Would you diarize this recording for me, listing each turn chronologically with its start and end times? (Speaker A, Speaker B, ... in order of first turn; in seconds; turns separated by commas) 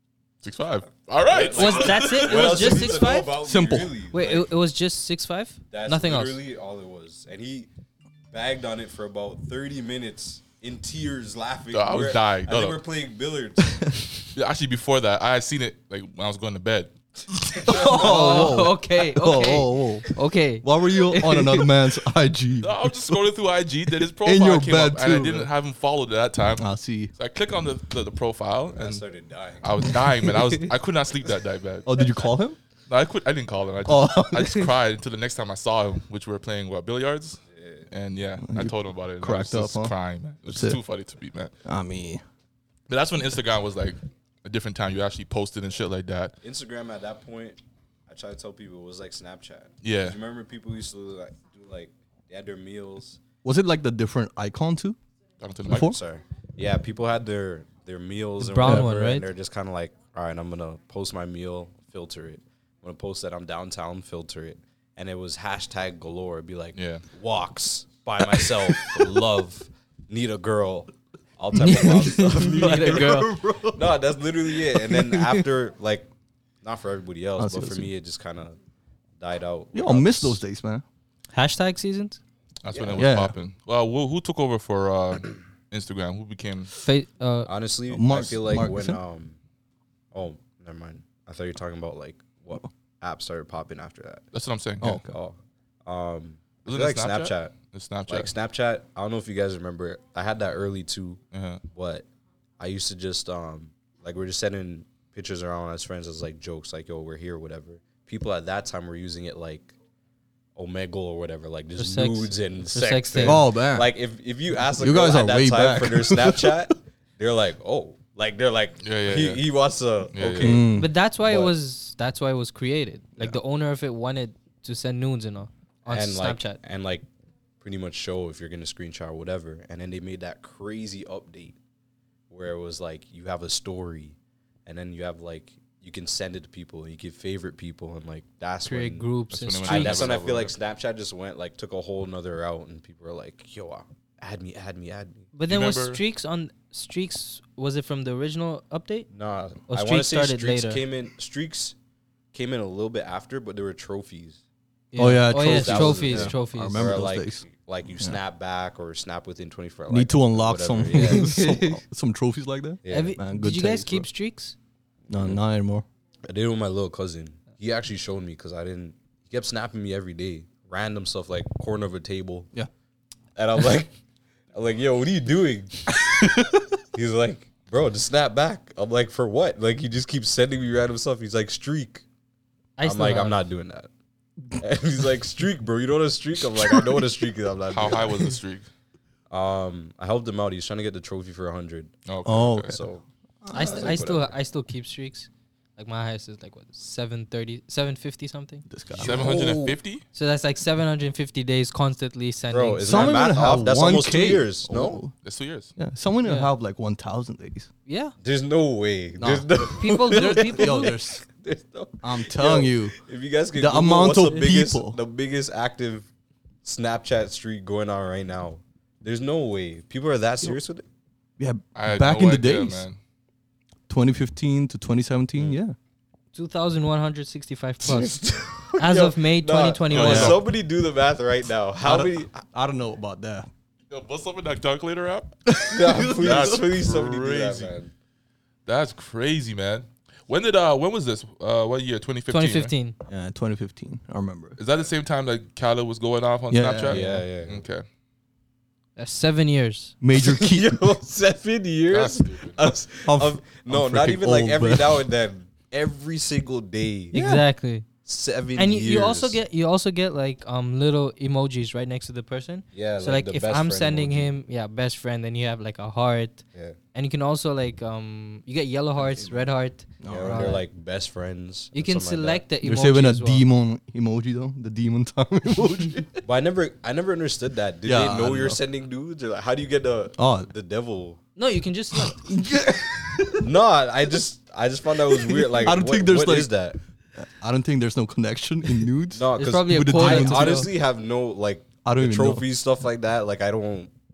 Speaker A: 0.4-3.0, Speaker B: 1.3-4.5, Speaker C: 1.4-3.4, Speaker D: 3.4-4.0, Speaker C: 4.1-6.4, Speaker B: 5.7-7.7, Speaker B: 8.3-13.8, Speaker A: 11.7-12.8, Speaker D: 13.7-14.2, Speaker A: 14.3-16.9, Speaker B: 17.4-18.6, Speaker D: 17.6-20.1, Speaker C: 17.6-21.7, Speaker D: 20.6-23.3, Speaker A: 22.6-29.0, Speaker D: 23.9-25.5, Speaker D: 26.6-27.1, Speaker B: 28.8-29.7, Speaker A: 29.6-31.9, Speaker D: 31.9-32.6, Speaker A: 32.9-41.5, Speaker D: 33.9-34.7, Speaker B: 37.5-37.9, Speaker D: 38.4-40.0, Speaker D: 40.5-40.8, Speaker D: 41.6-42.2, Speaker A: 42.9-46.4, Speaker B: 46.4-53.2, Speaker A: 49.8-50.2, Speaker D: 53.4-55.0, Speaker A: 55.4-55.9, Speaker D: 55.7-56.0, Speaker B: 55.7-76.1, Speaker C: 58.4-59.3, Speaker D: 58.6-58.9, Speaker A: 66.8-67.0, Speaker D: 68.3-68.9, Speaker C: 71.5-73.3, Speaker D: 72.1-74.0, Speaker C: 74.9-75.4, Speaker B: 76.6-78.6, Speaker D: 77.4-77.9, Speaker B: 79.2-80.4, Speaker D: 79.7-80.8, Speaker C: 81.3-82.2, Speaker A: 82.6-86.7, Speaker B: 82.7-83.1, Speaker D: 82.9-83.3, Speaker C: 86.7-87.5, Speaker B: 87.5-89.4, Speaker D: 87.9-89.0, Speaker B: 90.1-94.3, Speaker A: 94.3-95.0, Speaker D: 94.8-95.2, Speaker B: 94.9-97.5, Speaker A: 96.7-98.3, Speaker B: 98.1-101.2, Speaker A: 101.3-101.6, Speaker B: 101.7-102.1, Speaker B: 102.6-109.8, Speaker B: 110.6-121.5, Speaker C: 111.8-113.5, Speaker D: 113.2-113.9, Speaker D: 114.7-116.7, Speaker A: 118.8-119.5, Speaker A: 120.1-120.7, Speaker D: 120.4-120.9, Speaker C: 120.8-126.6, Speaker B: 125.9-127.1, Speaker B: 127.6-131.6, Speaker B: 132.3-139.1, Speaker C: 138.7-140.0, Speaker A: 139.3-140.5, Speaker B: 139.7-145.3, Speaker C: 145.3-149.1, Speaker A: 145.5-146.0, Speaker B: 149.1-151.8, Speaker C: 149.7-150.8, Speaker B: 152.3-154.4, Speaker C: 154.9-156.9, Speaker D: 155.0-157.4, Speaker B: 155.3-161.6, Speaker D: 159.9-164.1, Speaker C: 160.9-161.8, Speaker B: 162.8-163.2, Speaker C: 162.9-164.6, Speaker B: 165.1-165.4, Speaker D: 165.1-165.8, Speaker B: 166.3-172.5, Speaker B: 173.4-173.9, Speaker B: 174.5-176.3, Speaker D: 175.9-176.7, Speaker B: 176.9-182.0, Speaker C: 182.8-183.4, Speaker B: 182.8-183.9, Speaker B: 184.6-188.3, Speaker D: 186.6-186.9, Speaker A: 187.7-188.7, Speaker B: 189.3-191.9, Speaker A: 192.1-192.8, Speaker D: 192.2-192.9, Speaker B: 192.7-194.3, Speaker D: 193.4-194.0, Speaker C: 193.5-198.7, Speaker D: 198.7-199.8, Speaker A: 198.9-200.1, Speaker C: 200.1-203.3, Speaker B: 202.5-205.0, Speaker D: 202.8-205.1, Speaker A: 205.2-205.7, Speaker D: 205.8-207.7, Speaker C: 206.2-206.5, Speaker C: 207.9-208.2, Speaker B: 208.2-216.1, Speaker D: 209.2-211.2, Speaker C: 209.7-211.0, Speaker D: 212.0-213.0, Speaker D: 213.6-215.0, Speaker C: 214.2-214.4, Speaker B: 216.6-220.9, Speaker D: 221.4-222.9, Speaker A: 221.8-223.0, Speaker D: 223.9-225.8, Speaker C: 226.3-228.2, Speaker B: 227.8-232.4, Speaker C: 228.8-230.5, Speaker A: 229.9-230.4, Speaker D: 231.8-233.5, Speaker A: 233.9-235.4, Speaker D: 235.5-236.7, Speaker B: 235.7-237.9, Speaker A: 235.9-237.7, Speaker A: 238.7-242.7, Speaker C: 242.3-243.0, Speaker D: 243.1-244.6, Speaker A: 244.6-247.8, Speaker D: 246.5-247.3, Speaker B: 246.9-247.6, Speaker C: 249.0-250.0, Speaker D: 250.0-250.8, Speaker B: 250.2-257.3, Speaker A: 251.9-252.6, Speaker D: 253.0-255.1, Speaker D: 257.1-257.4, Speaker C: 257.1-257.9, Speaker B: 258.0-259.4, Speaker C: 258.6-270.6, Speaker B: 262.7-264.4, Speaker B: 269.0-269.5, Speaker D: 270.0-270.6, Speaker B: 270.1-272.4, Speaker C: 271.7-273.5, Speaker D: 272.6-276.2, Speaker B: 276.2-281.2, Speaker D: 277.8-278.6, Speaker D: 280.2-280.5, Speaker C: 281.4-282.3, Speaker D: 281.9-283.5, Speaker B: 283.4-286.8, Speaker D: 285.1-286.6, Speaker D: 287.2-290.7, Speaker B: 289.1-293.9, Speaker C: 289.4-290.7, Speaker D: 291.8-292.5